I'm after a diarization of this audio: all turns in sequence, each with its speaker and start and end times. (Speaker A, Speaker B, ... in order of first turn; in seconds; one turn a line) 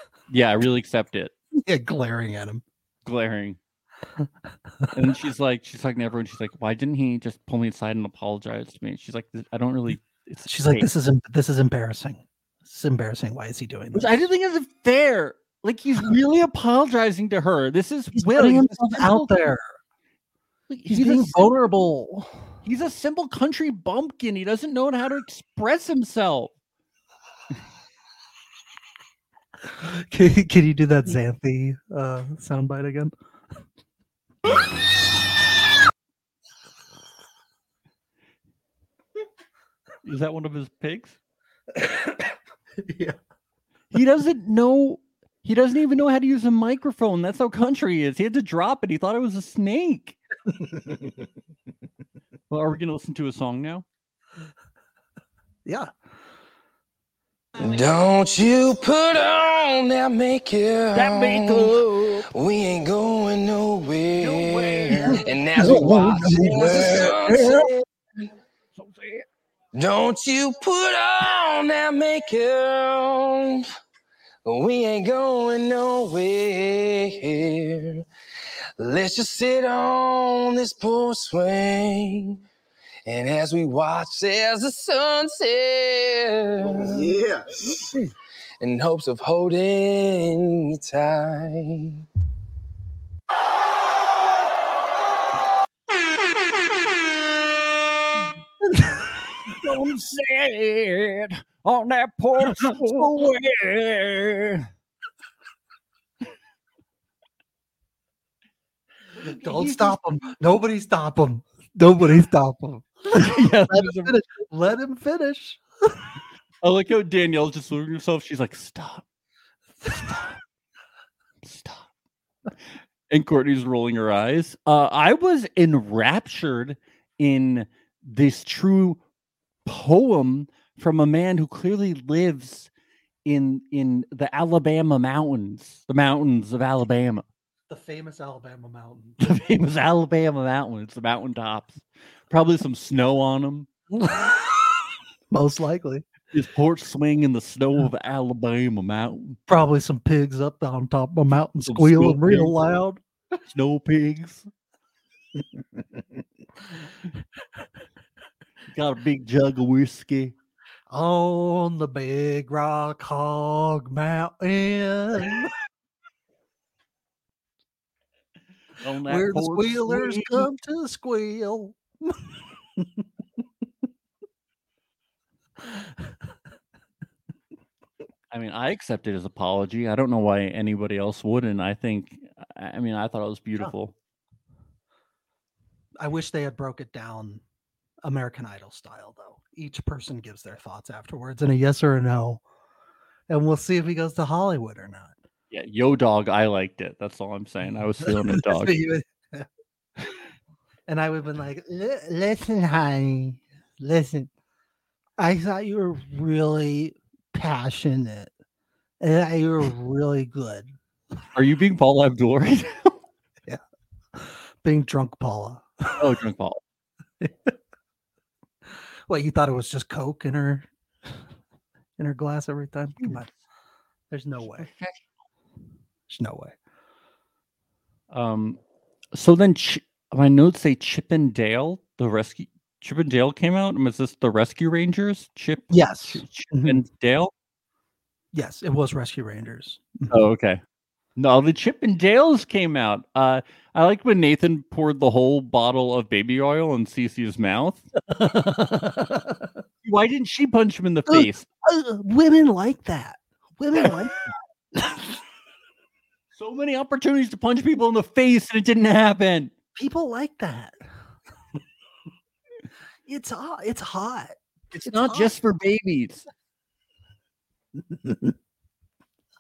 Speaker A: 0.3-1.3
Speaker B: 1.5-2.6
Speaker A: 3.0-3.6
Speaker A: 4.9-10.9
Speaker B: 10.5-14.1
Speaker A: 13.9-19.3
Speaker B: 18.1-19.7
Speaker A: 20.7-21.5
Speaker B: 20.9-22.4
Speaker A: 22.6-26.5
Speaker B: 29.8-33.1
Speaker A: 40.0-41.2
Speaker B: 41.8-43.2
Speaker A: 43.9-50.2
Speaker B: 50.5-51.2
Speaker A: 52.5-53.9
Speaker B: 55.6-55.9
Speaker C: 57.6-67.8
Speaker A: 60.9-62.2
Speaker A: 64.2-66.8
Speaker B: 65.0-67.7
Speaker A: 68.8-69.2
Speaker C: 69.8-73.7
Speaker C: 74.5-78.0
Speaker C: 78.8-82.4
Speaker C: 83.1-87.2
Speaker C: 87.8-92.0
Speaker B: 98.7-99.0
Speaker A: 99.4-104.7
Speaker B: 102.4-103.0
Speaker A: 109.1-110.3
Speaker B: 109.2-116.1
Speaker A: 113.1-114.1
Speaker A: 116.6-119.0
Speaker A: 119.8-120.4
Speaker A: 121.4-121.9
Speaker A: 123.1-129.0
Speaker A: 129.7-132.7
Speaker A: 133.3-137.2
Speaker B: 137.7-139.3
Speaker A: 139.2-143.7
Speaker B: 143.9-146.1
Speaker A: 146.3-149.4
Speaker B: 149.5-153.0
Speaker A: 151.7-152.6
Speaker A: 153.5-154.5
Speaker B: 155.4-156.2
Speaker A: 158.7-160.3
Speaker B: 160.9-165.5
Speaker A: 168.8-170.5
Speaker B: 169.1-173.0
Speaker A: 178.3-183.9
Speaker B: 186.0-187.4
Speaker B: 188.0-192.4
Speaker B: 193.3-195.1
Speaker A: 195.5-198.8
Speaker B: 198.0-199.5
Speaker B: 200.9-204.3
Speaker B: 205.2-208.3
Speaker B: 209.0-210.7
Speaker A: 211.3-213.0
Speaker B: 214.2-216.0
Speaker A: 216.0-216.6
Speaker B: 217.2-217.5
Speaker B: 219.1-220.7
Speaker B: 222.0-223.3
Speaker B: 224.1-224.7
Speaker A: 224.6-225.0
Speaker B: 226.1-226.5
Speaker A: 228.1-228.6
Speaker A: 229.1-237.3
Speaker B: 235.7-236.8
Speaker B: 238.3-240.1
Speaker A: 240.1-240.6
Speaker A: 241.2-247.9
Speaker B: 248.1-249.5
Speaker A: 249.8-251.4
Speaker B: 251.1-254.2
Speaker B: 254.8-255.2
Speaker A: 256.4-259.5
Speaker B: 259.8-260.8
Speaker B: 263.1-265.3
Speaker A: 264.7-266.3
Speaker B: 267.8-268.4